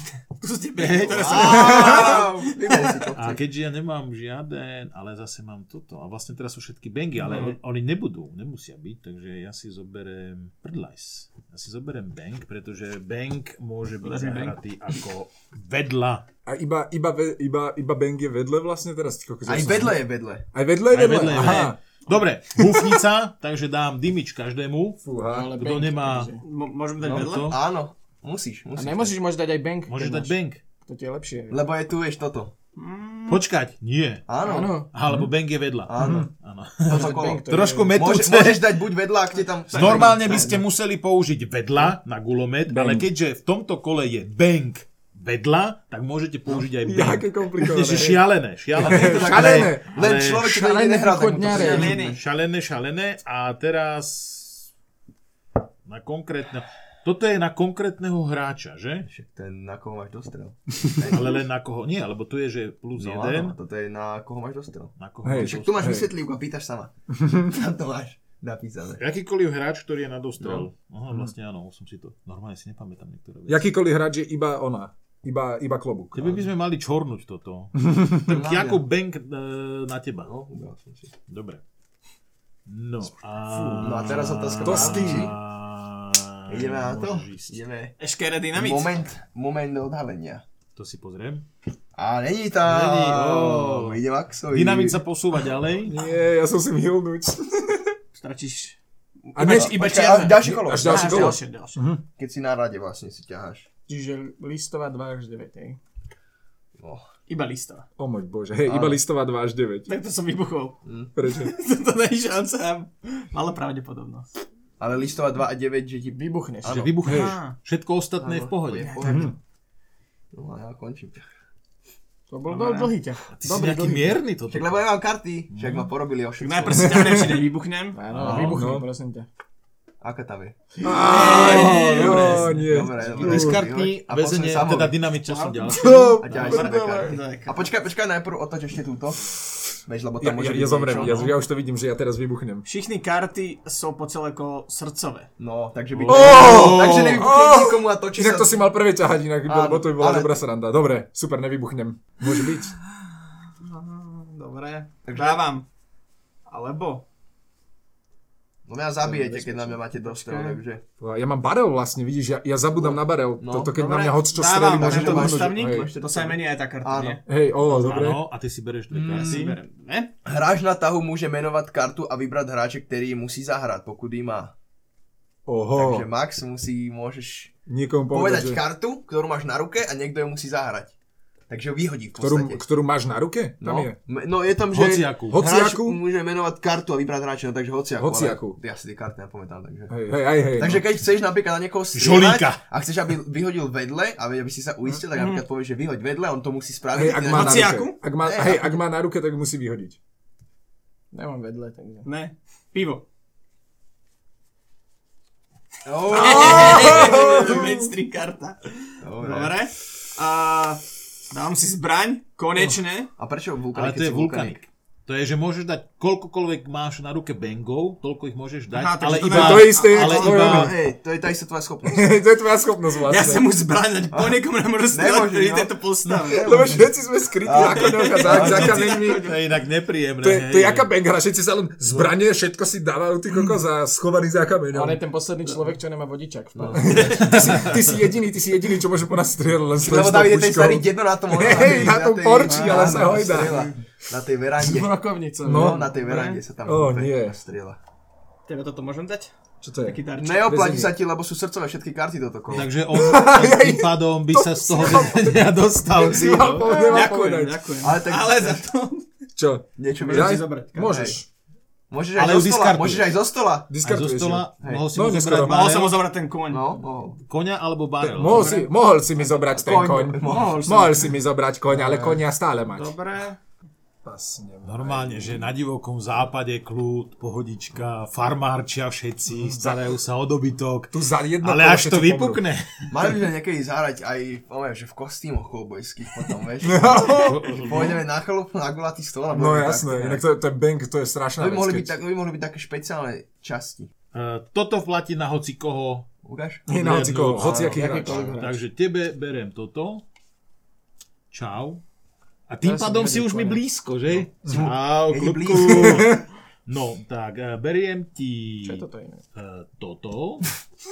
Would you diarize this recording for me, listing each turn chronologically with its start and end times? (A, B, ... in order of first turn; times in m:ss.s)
0:00.4-0:03.1 A
0:00.8-0:01.9 B
0:01.1-0:03.4 C
0:01.5-0:02.1 D
0:03.2-0:16.3 B
0:07.2-0:07.6 A
0:14.0-0:15.0 A
0:16.5-0:21.8 D
0:19.5-0:20.4 C
0:20.9-0:26.3 B
0:22.6-0:23.0 D
0:25.0-0:25.6 D
0:25.3-0:26.4 E
0:26.4-0:27.6 A
0:27.0-0:27.6 B
0:27.0-0:29.2 C
0:28.8-0:31.7 E
0:29.9-0:30.6 B
0:31.5-0:32.5 C
0:32.8-0:33.4 A
0:33.3-0:34.3 B
0:34.3-0:34.8 C
0:34.4-0:34.9 E
0:34.9-0:38.8 B
0:35.9-0:36.3 C
0:36.0-0:36.3 D
0:36.8-0:40.6 C
0:36.9-0:38.0 E
0:39.7-0:40.5 A
0:39.7-0:50.6 B
0:42.7-0:43.1 D
0:46.8-0:48.2 D
0:48.7-0:52.2 C
0:48.8-0:49.9 D
0:50.4-0:52.0 E
0:51.5-0:52.2 A
0:51.8-0:54.7 B
0:55.9-0:59.1 B
0:59.1-1:01.4 C
1:01.1-1:03.6 B
1:03.0-1:09.0 C
1:05.0-1:05.9 B
1:05.2-1:06.1 D
1:07.1-1:07.5 D
1:09.0-1:13.7 B
1:10.4-1:10.7 C
1:13.5-1:16.5 D
1:16.1-1:20.3 B
1:17.8-1:18.3 D
1:18.3-1:18.8 C
1:20.3-1:21.1 C
1:21.3-1:21.6 B
1:22.7-1:27.6 B
1:23.5-1:25.3 D
1:23.8-1:25.4 C
1:26.5-1:28.0 C
1:28.0-1:29.0 A
1:28.5-1:30.4 C
1:30.8-1:31.5 B
1:32.0-1:35.0 C
1:32.6-1:36.0 B
1:35.8-1:38.0 D
1:38.2-1:41.8 A
1:39.4-1:42.0 D
1:39.4-1:41.4 C
1:42.2-1:43.7 C
1:43.9-1:45.8 E
1:46.8-1:47.0 C
1:47.3-1:47.9 A
1:48.0-1:49.9 D
1:48.7-1:49.0 C
1:49.9-1:54.3 A
1:50.8-1:51.1 C
1:51.2-1:51.5 D
1:54.8-1:56.9 C
1:56.1-1:56.8 E
1:56.6-1:58.9 B
1:57.0-1:57.4 D
1:57.0-1:57.6 A
1:58.2-1:59.4 C
1:58.8-1:59.3 A
1:59.1-1:59.3 D
2:00.3-2:01.2 C
2:02.3-2:04.2 E
2:02.5-2:02.9 A
2:03.4-2:04.8 B
2:04.5-2:07.4 C
2:05.5-2:05.9 B
2:06.4-2:08.0 A
2:06.8-2:07.4 D
2:07.9-2:09.3 E
2:08.1-2:08.7 B
2:08.3-2:08.9 D
2:10.0-2:15.0 C
2:10.8-2:13.6 D
2:10.9-2:12.5 A
2:11.2-2:12.5 B
2:13.0-2:16.6 B
2:15.3-2:15.6 A
2:15.6-2:16.7 D
2:16.2-2:21.3 C
2:16.3-2:17.7 A
2:20.2-2:22.6 D
2:20.9-2:21.3 B
2:22.7-2:25.3 A
2:25.4-2:28.7 C
2:25.9-2:27.3 B
2:26.1-2:32.8 D
2:29.5-2:30.4 C
2:33.6-2:35.7 A
2:35.1-2:35.4 C
2:36.5-2:37.0 A
2:38.7-2:40.8 C
2:39.0-2:40.6 E
2:41.0-2:45.9 D
2:42.7-2:43.9 C
2:43.8-2:47.2 A
2:44.7-2:47.2 C
2:47.3-2:48.2 D
2:47.6-2:49.6 B
2:48.9-2:49.4 C
2:49.0-2:50.1 A
2:50.3-2:54.5 C
2:55.5-2:56.1 D
2:55.8-2:57.5 C
2:57.7-2:58.6 D
2:58.1-3:00.9 C
3:01.5-3:02.6 C
3:02.2-3:04.0 D
3:03.6-3:18.8 C
3:04.7-3:05.4 B
3:05.3-3:06.0 D
3:08.0-3:08.6 D
3:09.9-3:10.8 D
3:11.9-3:12.6 B
3:15.1-3:15.4 A
3:16.9-3:20.0 D
3:17.3-3:18.0 A
3:21.1-3:22.1 E
3:22.0-3:23.0 A
3:25.8-3:27.6 C
3:26.1-3:33.1 A
3:26.1-3:27.9 D
3:29.0-3:29.7 C
3:33.2-3:34.6 C
3:33.7-3:40.8 B
3:38.7-3:40.5 A
3:39.3-3:40.8 D
3:40.1-3:42.2 C
3:41.9-3:43.5 D
3:43.0-3:46.8 A
3:44.1-3:45.7 C
3:46.1-3:49.2 D
3:46.3-3:46.9 C
3:47.4-3:48.9 C
3:47.5-3:49.4 A
3:49.0-3:50.9 B
3:50.2-3:55.0 D
3:54.7-3:57.1 E
3:56.6-3:57.7 C
3:56.8-4:03.7 D
3:57.2-3:57.8 B
3:59.8-4:07.8 C
4:02.5-4:03.6 A
4:02.9-4:03.4 E
4:04.6-4:05.9 E
4:05.4-4:05.9 D
4:05.9-4:06.4 A
4:06.6-4:07.4 D
4:08.5-4:09.3 A
4:09.6-4:11.0 D
4:09.8-4:10.5 A
4:10.1-4:12.7 C
4:12.5-4:16.7 B
4:12.9-4:17.6 D
4:16.3-4:16.7 C
4:16.6-4:19.1 A
4:17.8-4:18.7 C
4:19.4-4:21.3 D
4:19.8-4:21.2 C
4:20.0-4:21.1 A
4:21.9-4:23.7 C
4:22.2-4:23.2 B
4:23.7-4:25.6 D
4:23.8-4:26.0 B
4:25.4-4:26.8 A
4:26.5-4:27.2 C
4:27.3-4:28.6 B
4:28.0-4:33.0 D
4:28.2-4:28.6 A
4:29.5-4:30.7 C
4:30.2-4:31.2 A
4:32.7-4:33.4 A
4:34.0-4:35.5 D
4:34.6-4:43.2 B
4:39.3-4:39.8 D
4:40.9-4:42.4 D
4:42.9-4:50.2 C
4:46.6-4:47.7 D
4:47.2-4:48.0 B
4:49.3-4:52.0 D
4:51.4-4:53.9 C
4:54.1-4:56.1 B
4:56.2-4:56.8 C
4:56.7-4:58.2 D
4:56.7-5:00.0 B
4:57.3-4:58.4 C
4:57.8-4:58.6 E
5:01.3-5:01.8 B
5:02.5-5:08.8 B
5:02.6-5:03.6 E
5:04.4-5:04.7 D
5:04.5-5:06.1 C
5:05.6-5:06.2 D
5:08.6-5:09.2 E
5:09.4-5:10.5 B